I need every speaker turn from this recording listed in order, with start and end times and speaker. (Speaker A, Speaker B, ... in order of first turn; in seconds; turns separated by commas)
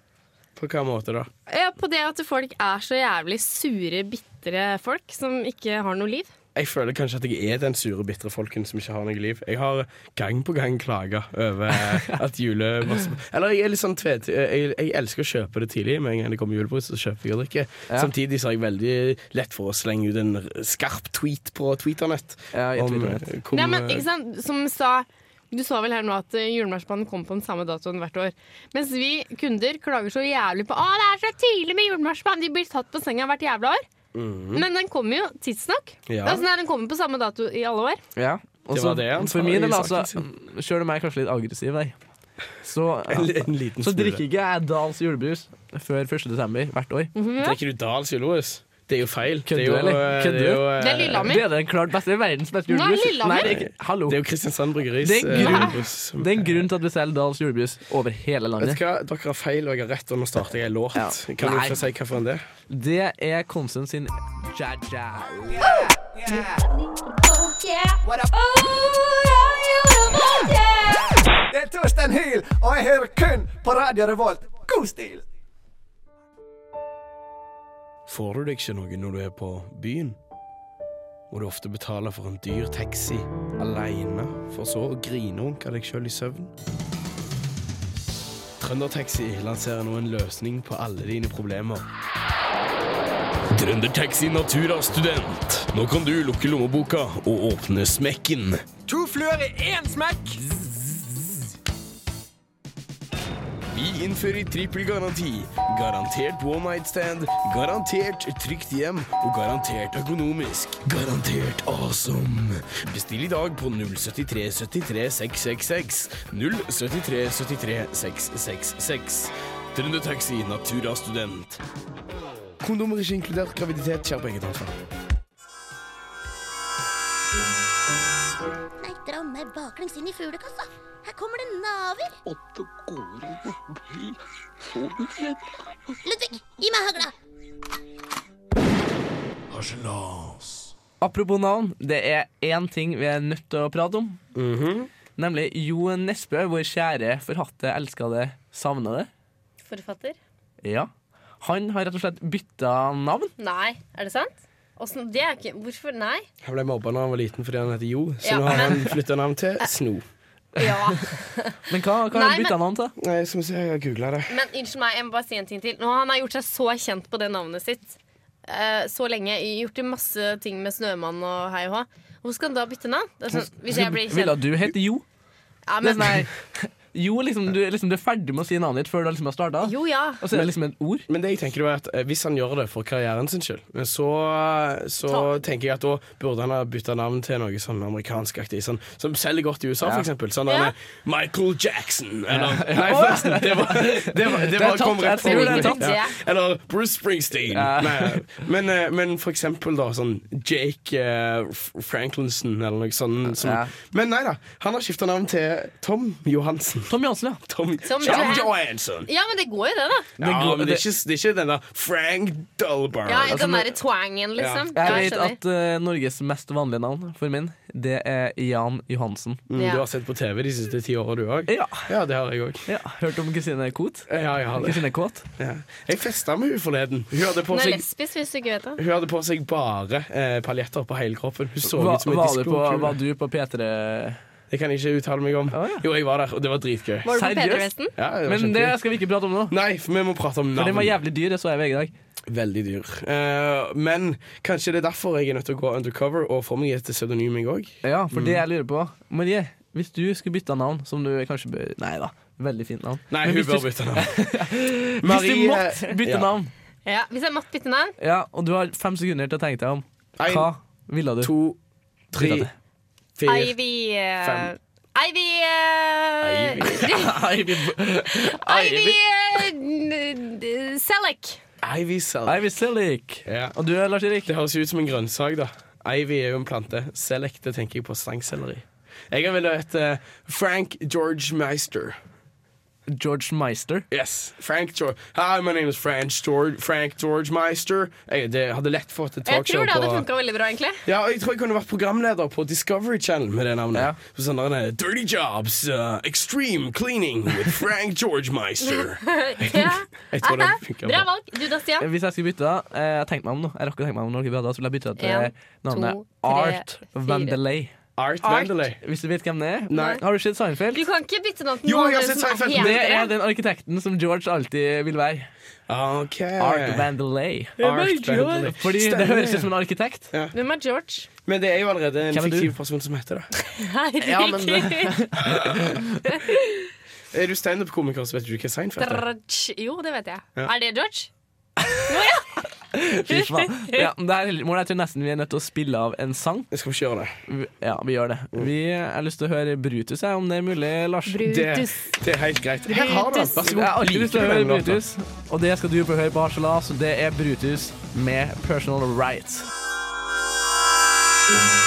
Speaker A: 0.6-1.3, Speaker B: 1.5-6.3, Speaker A: 6.5-24.1, Speaker C: 11.7-12.2, Speaker C: 22.5-23.2, Speaker B: 23.5-33.8, Speaker A: 34.1-34.6, Speaker B: 34.5-38.0, Speaker A: 36.1-36.4, Speaker C: 38.1-42.0, Speaker A: 38.7-40.2, Speaker C: 42.6-47.1, Speaker A: 43.1-44.2, Speaker B: 47.1-47.6, Speaker A: 47.4-51.3, Speaker C: 49.5-54.2, Speaker B: 50.8-51.5, Speaker B: 52.7-53.7, Speaker A: 54.0-56.7, Speaker C: 55.0-58.8, Speaker B: 55.3-55.7, Speaker A: 58.6-62.4, Speaker C: 60.9-61.8, Speaker C: 62.7-65.6, Speaker D: 65.5-66.6, Speaker B: 67.1-71.2, Speaker D: 68.0-68.5, Speaker D: 71.5-75.2, Speaker A: 78.1-80.2, Speaker A: 81.3-86.5, Speaker A: 88.6-91.8, Speaker A: 93.5-98.6, Speaker D: 98.9-100.4, Speaker A: 103.7-121.6, Speaker A: 122.6-124.8, Speaker E: 128.8-132.2, Speaker F: 132.2-136.0, Speaker E: 136.0-137.1, Speaker F: 139.5-140.7, Speaker C: 141.0-144.2, Speaker A: 144.3-144.9, Speaker C: 145.2-149.1, Speaker B: 149.6-150.2, Speaker C: 150.6-153.3, Speaker B: 153.4-156.2, Speaker A: 156.4-160.0, Speaker B: 158.2-158.9, Speaker C: 160.6-161.1, Speaker B: 160.6-162.6, Speaker C: 161.7-162.9, Speaker A: 163.0-164.3, Speaker B: 164.3-174.4, Speaker C: 173.7-175.0, Speaker B: 175.7-176.3, Speaker C: 175.8-181.1, Speaker B: 179.6-180.2, Speaker A: 181.1-206.9, Speaker B: 185.1-185.3, Speaker C: 189.8-190.1, Speaker B: 190.5-190.7, Speaker C: 192.3-195.9, Speaker B: 195.2-196.2, Speaker C: 197.4-198.3, Speaker C: 203.2-203.7, Speaker C: 206.9-207.4, Speaker A: 207.4-209.1, Speaker B: 207.8-208.5, Speaker C: 208.0-208.3, Speaker B: 209.0-210.1, Speaker A: 210.2-213.3, Speaker C: 210.2-210.8, Speaker B: 213.1-215.4, Speaker C: 213.3-213.7, Speaker A: 214.4-215.1, Speaker C: 214.7-219.4, Speaker A: 219.5-222.7, Speaker B: 219.6-219.8, Speaker C: 221.5-221.9, Speaker C: 222.7-225.2, Speaker A: 224.1-224.8, Speaker A: 225.4-227.8, Speaker B: 227.5-228.8, Speaker A: 228.8-233.0, Speaker C: 231.7-234.2, Speaker A: 234.5-237.1, Speaker C: 235.5-235.8, Speaker B: 237.0-237.9, Speaker C: 237.2-237.7, Speaker A: 238.0-238.8, Speaker C: 238.2-239.5, Speaker A: 239.5-241.0, Speaker C: 240.6-241.9, Speaker A: 242.3-248.4, Speaker C: 247.8-256.5, Speaker A: 253.1-254.2, Speaker A: 255.0-256.3, Speaker B: 256.9-257.9, Speaker C: 258.0-261.3, Speaker A: 260.2-260.5, Speaker A: 261.2-261.6, Speaker A: 262.1-262.5, Speaker C: 262.1-262.5, Speaker A: 263.2-263.5, Speaker B: 263.2-271.4, Speaker A: 264.2-264.5, Speaker A: 266.2-267.0, Speaker C: 266.8-269.0, Speaker A: 271.6-272.4, Speaker C: 272.2-274.3, Speaker A: 273.2-273.5, Speaker A: 274.2-282.0, Speaker C: 282.9-283.9, Speaker A: 283.9-290.1, Speaker B: 289.2-290.8, Speaker A: 290.8-301.1, Speaker B: 298.6-301.9, Speaker C: 301.8-307.7, Speaker B: 305.0-307.4, Speaker A: 307.9-308.8, Speaker B: 308.2-308.5, Speaker C: 308.8-310.8, Speaker A: 309.7-310.0, Speaker B: 309.7-310.0, Speaker B: 310.7-313.1, Speaker A: 311.6-312.8, Speaker C: 312.5-315.3, Speaker A: 315.7-316.9, Speaker C: 316.4-320.1, Speaker A: 317.6-319.5, Speaker B: 320.3-321.1, Speaker A: 321.2-323.3, Speaker C: 322.1-322.5, Speaker B: 323.4-325.0, Speaker C: 324.0-326.0, Speaker A: 325.2-325.8, Speaker A: 327.1-329.0, Speaker B: 328.8-331.1, Speaker B: 331.9-332.3, Speaker C: 332.7-336.5, Speaker B: 333.1-333.9, Speaker A: 336.5-337.1, Speaker C: 337.3-341.2, Speaker B: 341.1-342.0, Speaker A: 341.2-344.8, Speaker B: 342.7-343.4, Speaker C: 343.4-349.5